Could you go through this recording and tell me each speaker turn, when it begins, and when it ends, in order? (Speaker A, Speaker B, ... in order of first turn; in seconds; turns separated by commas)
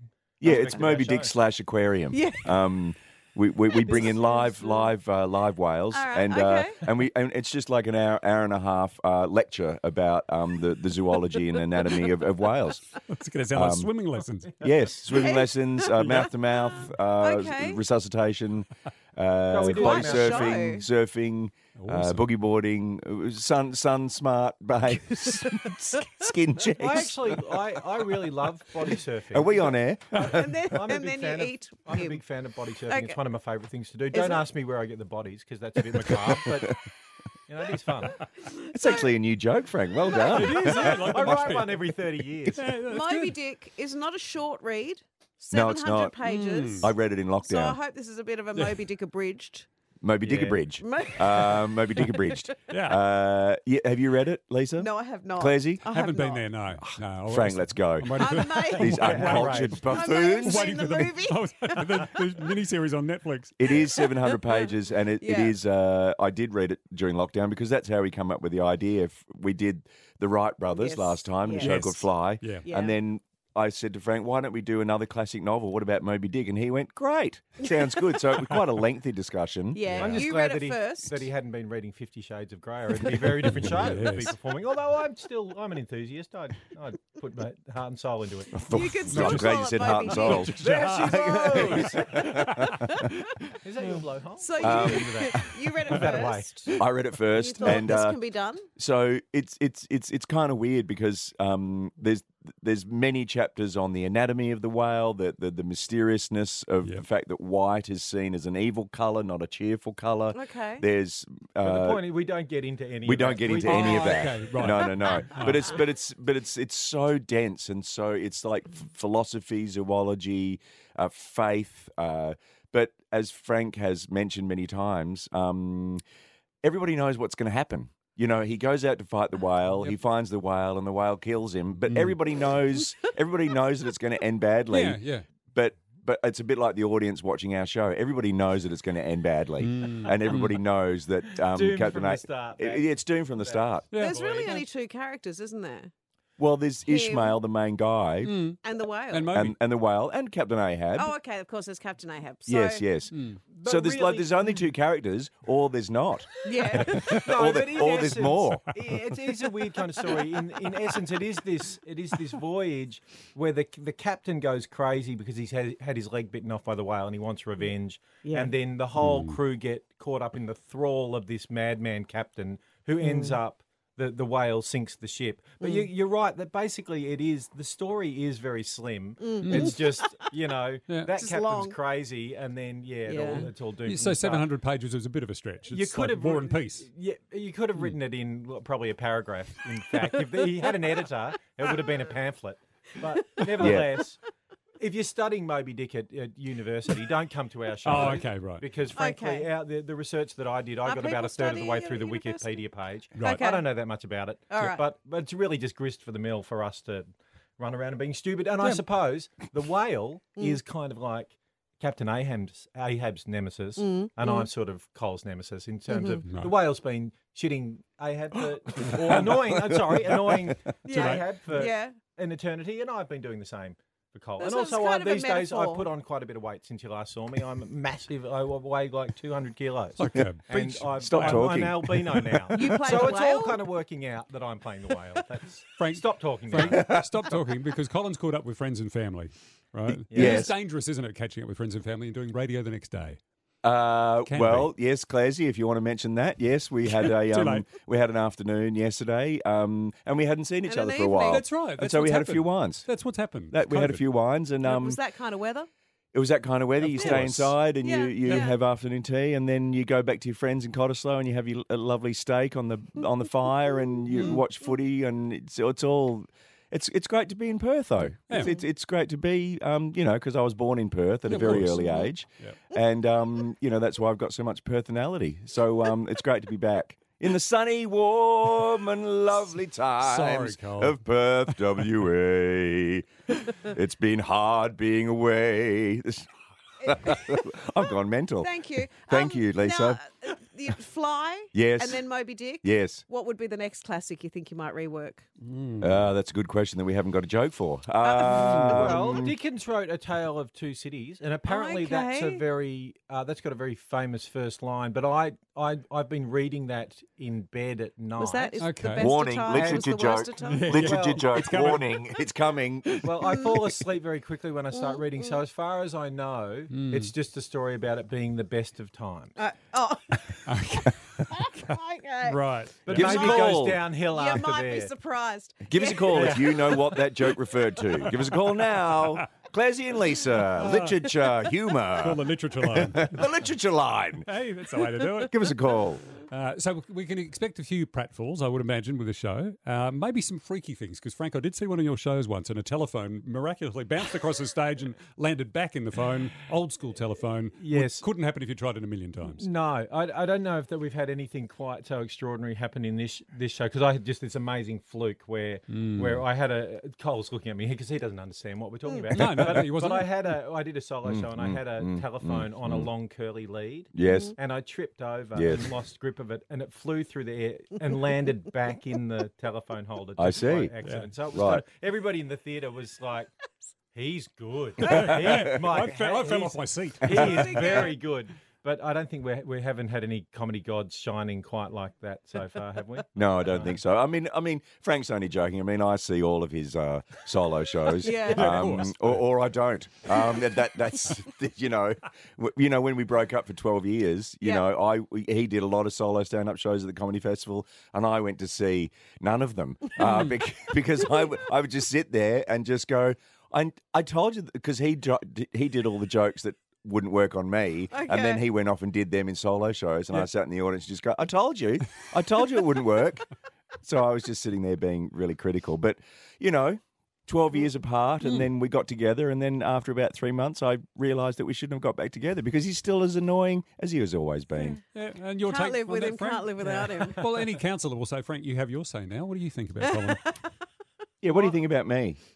Speaker A: 0.4-1.3, Speaker B: 0.4-12.8, Speaker C: 0.5-0.8, Speaker C: 2.1-2.5, Speaker C: 3.7-4.9, Speaker C: 5.9-6.8, Speaker D: 13.1-14.7, Speaker B: 13.5-13.9, Speaker B: 14.6-27.4, Speaker C: 15.1-17.8, Speaker D: 15.9-16.3, Speaker A: 19.5-20.7, Speaker C: 19.6-20.8, Speaker D: 21.8-22.3, Speaker A: 26.7-36.8, Speaker B: 29.3-30.2, Speaker C: 30.1-32.2, Speaker C: 32.9-33.2, Speaker C: 34.1-34.5, Speaker A: 37.5-38.2, Speaker C: 38.4-39.1, Speaker B: 38.7-41.5, Speaker A: 40.1-42.6, Speaker D: 40.2-41.9, Speaker D: 42.5-43.3, Speaker C: 42.8-46.9, Speaker B: 45.5-46.2, Speaker D: 46.2-46.9, Speaker B: 46.8-47.8, Speaker C: 47.4-49.7, Speaker B: 50.0-55.8, Speaker A: 50.2-50.6, Speaker C: 50.8-52.4, Speaker D: 52.7-53.0, Speaker C: 54.8-56.5, Speaker D: 55.9-63.5, Speaker B: 56.8-60.8, Speaker C: 58.2-62.2, Speaker A: 58.9-59.7, Speaker B: 63.6-80.0, Speaker C: 63.7-65.6, Speaker C: 70.7-71.7, Speaker D: 71.6-72.7, Speaker C: 72.6-72.9, Speaker C: 79.7-81.3, Speaker D: 79.8-80.3, Speaker A: 80.0-88.7, Speaker D: 83.4-84.3, Speaker B: 88.6-93.1, Speaker C: 88.7-90.5, Speaker D: 89.0-93.1, Speaker A: 90.6-92.3, Speaker A: 93.6-96.8, Speaker C: 94.4-96.8, Speaker B: 94.6-95.5, Speaker B: 96.7-98.2, Speaker C: 97.3-98.7, Speaker B: 98.8-112.0, Speaker C: 110.3-110.8, Speaker A: 111.6-114.5, Speaker B: 113.0-126.0, Speaker D: 113.6-115.8, Speaker B: 126.6-135.0, Speaker D: 131.9-132.2, Speaker D: 134.7-135.2, Speaker B: 135.5-143.8, Speaker D: 139.6-140.6, Speaker A: 141.5-144.6, Speaker D: 143.9-144.6, Speaker C: 144.0-145.9, Speaker B: 146.4-148.4, Speaker C: 146.8-147.4, Speaker D: 148.2-149.6, Speaker C: 148.6-149.3, Speaker B: 149.3-151.1, Speaker C: 150.9-152.8, Speaker B: 152.5-158.7, Speaker D: 153.1-153.4, Speaker A: 153.5-154.4, Speaker C: 156.4-157.1, Speaker A: 157.0-184.5, Speaker C: 168.2-168.5, Speaker D: 169.0-169.4, Speaker C: 173.0-173.4, Speaker C: 175.6-175.8, Speaker C: 179.2-180.1, Speaker D: 179.4-179.8, Speaker C: 181.1-181.8, Speaker C: 183.1-183.5, Speaker D: 183.2-186.9, Speaker A: 185.6-194.2, Speaker B: 193.6-193.9, Speaker A: 194.8-207.1, Speaker D: 197.8-198.6, Speaker C: 198.9-199.5, Speaker C: 200.8-203.7, Speaker D: 203.2-203.4, Speaker C: 204.5-204.8, Speaker A: 207.6-237.0, Speaker C: 213.8-214.5, Speaker C: 215.9-216.2, Speaker D: 216.3-216.5, Speaker B: 219.0-220.6, Speaker C: 220.8-222.0, Speaker D: 220.9-221.3, Speaker C: 224.4-225.9, Speaker D: 230.0-233.0, Speaker B: 231.0-232.2, Speaker C: 232.5-233.6, Speaker D: 235.8-243.2, Speaker B: 236.7-237.0, Speaker A: 240.1-240.5, Speaker B: 240.1-240.5, Speaker B: 243.6-252.9, Speaker D: 244.2-244.7, Speaker D: 246.9-247.7, Speaker C: 250.6-251.4, Speaker D: 251.3-254.0, Speaker B: 253.5-255.0, Speaker C: 254.6-255.7, Speaker B: 256.1-286.3, Speaker D: 256.8-257.6, Speaker C: 257.0-257.2, Speaker C: 257.8-258.6, Speaker D: 258.2-258.5, Speaker D: 264.1-264.4, Speaker C: 268.3-268.6, Speaker D: 271.3-272.6, Speaker C: 271.3-272.1, Speaker D: 280.0-281.0, Speaker B: 286.8-290.0, Speaker C: 288.4-295.2, Speaker B: 291.5-292.0, Speaker B: 292.6-293.0, Speaker D: 295.4-295.9, Speaker B: 295.8-299.4, Speaker C: 298.0-298.7, Speaker A: 298.1-308.7, Speaker D: 298.4-298.9, Speaker C: 301.4-302.4, Speaker C: 308.1-310.7, Speaker D: 308.6-309.1, Speaker B: 308.9-313.1, Speaker A: 309.5-310.1, Speaker D: 310.4-312.1, Speaker A: 310.7-311.2, Speaker A: 313.0-319.3, Speaker C: 314.7-315.4, Speaker D: 316.7-317.1, Speaker C: 319.4-320.5, Speaker D: 320.4-323.2, Speaker C: 321.3-322.4, Speaker A: 322.8-324.9, Speaker B: 322.9-323.8, Speaker C: 322.9-326.8, Speaker B: 325.6-334.3, Speaker A: 326.1-327.1, Speaker D: 328.1-329.2, Speaker D: 330.5-333.3, Speaker D: 334.2-335.6, Speaker B: 335.3-336.0, Speaker D: 336.2-349.5, Speaker A: 347.6-348.0, Speaker A: 349.2-373.3, Speaker D: 355.7-356.2, Speaker D: 359.1-360.1, Speaker B: 361.0-362.9, Speaker B: 363.9-364.3, Speaker C: 364.0-364.3, Speaker B: 365.3-365.7, Speaker B: 370.2-370.7, Speaker D: 370.8-371.1, Speaker B: 371.3-371.6, Speaker A: 373.9-383.8, Speaker D: 374.8-377.9, Speaker B: 374.9-375.6, Speaker B: 377.0-377.3, Speaker C: 377.1-378.0, Speaker B: 383.1-413.3, Speaker C: 388.0-388.5, Speaker D: 388.2-389.2, Speaker D: 400.0-400.4, Speaker C: 407.9-408.4, Speaker B: 413.8-424.8, Speaker D: 418.2-418.5, Speaker D: 424.9-430.3, Speaker C: 425.4-427.4, Speaker C: 430.1-430.4, Speaker B: 431.2-432.2